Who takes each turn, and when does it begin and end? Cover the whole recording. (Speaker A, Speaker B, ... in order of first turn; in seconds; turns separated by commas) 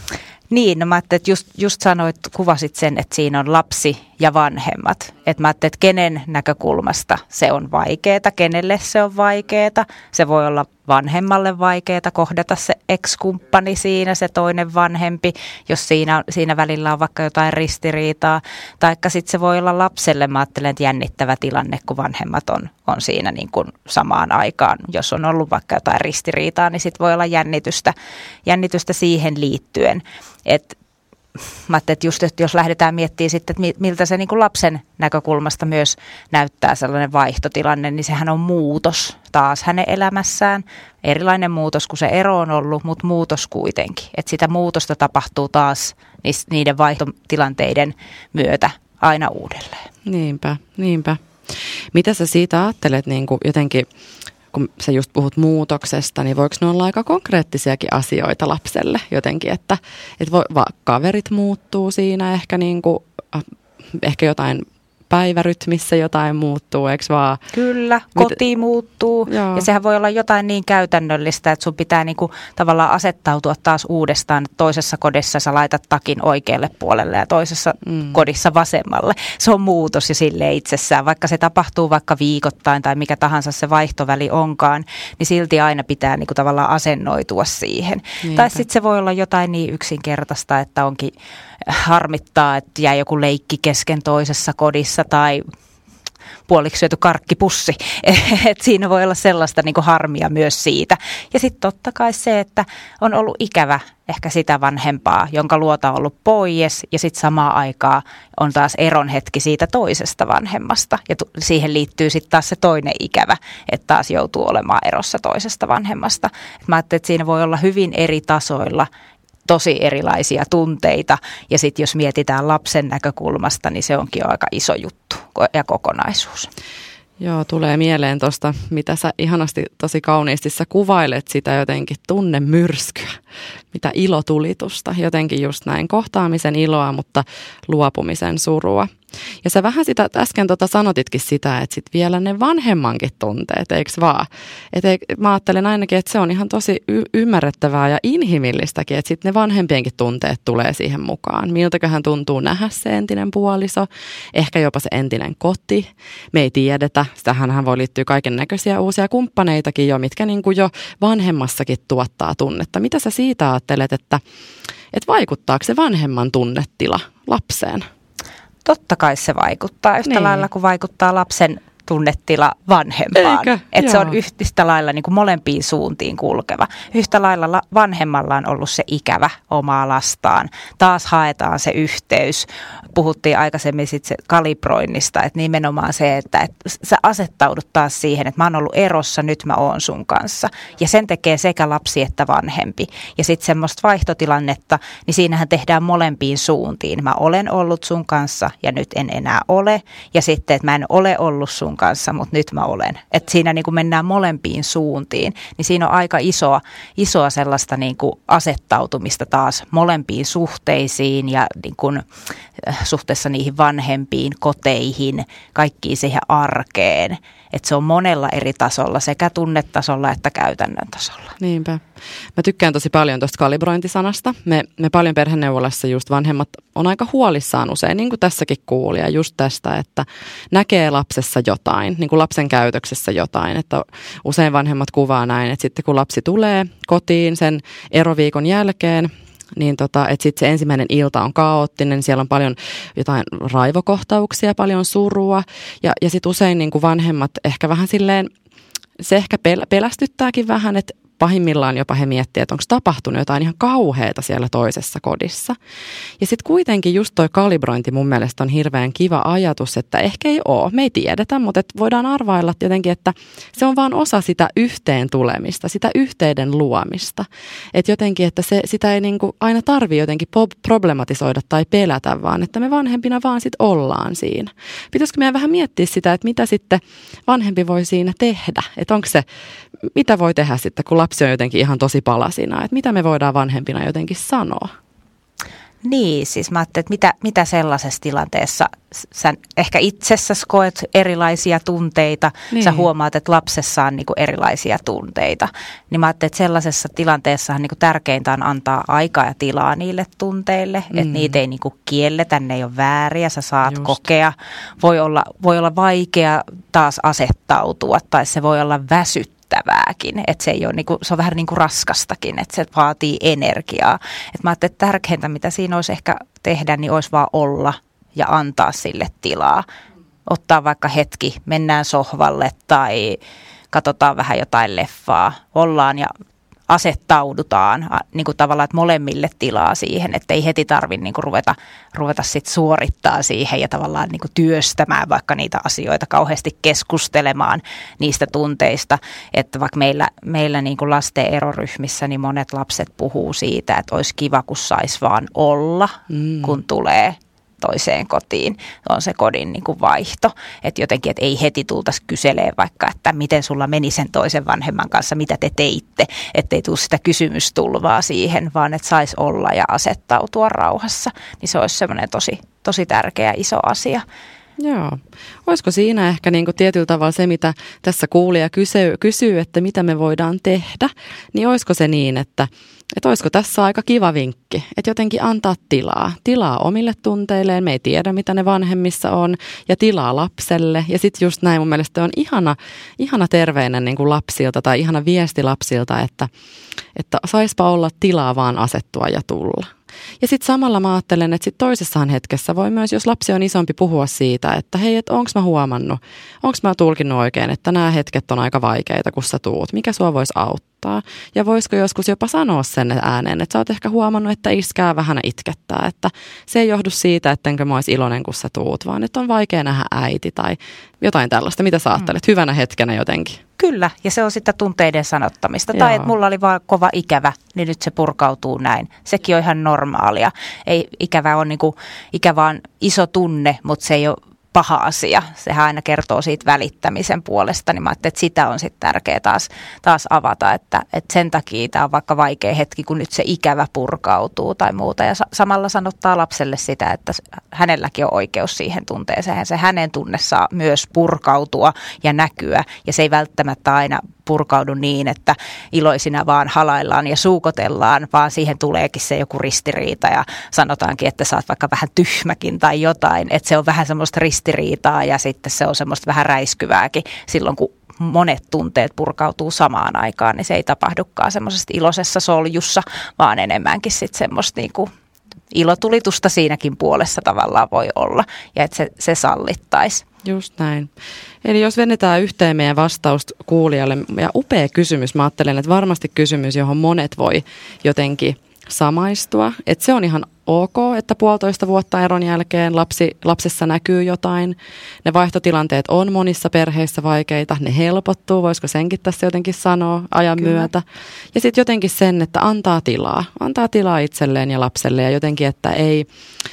Speaker A: 0.5-27.9, Speaker A: 28.4-30.8, Speaker A: 31.7-49.9, Speaker B: 50.0-53.9, Speaker B: 54.5-67.4, Speaker A: 67.5-91.1, Speaker B: 69.3-69.7, Speaker B: 88.2-88.5, Speaker A: 91.6-95.5, Speaker A: 96.5-118.9, Speaker A: 119.5-126.5, Speaker B: 127.2-133.2, Speaker B: 133.7-164.2, Speaker B: 164.9-167.8, Speaker A: 168.6-212.1, Speaker B: 170.1-170.4, Speaker B: 173.1-174.2, Speaker A: 212.6-221.3, Speaker B: 221.4-221.8, Speaker B: 222.3-248.3, Speaker B: 249.0-255.6, Speaker B: 256.2-279.2, Speaker B: 279.8-284.7, Speaker A: 285.8-319.6, Speaker B: 292.5-292.9, Speaker B: 300.9-301.3, Speaker A: 320.3-323.2, Speaker A: 323.7-326.1, Speaker A: 326.7-364.0, Speaker B: 346.1-346.5, Speaker B: 364.6-386.3, Speaker B: 386.9-413.4, Speaker A: 413.6-464.9, Speaker B: 415.7-416.1, Speaker A: 465.5-470.0, Speaker B: 470.2-470.9, Speaker B: 471.4-496.1, Speaker A: 490.4-490.7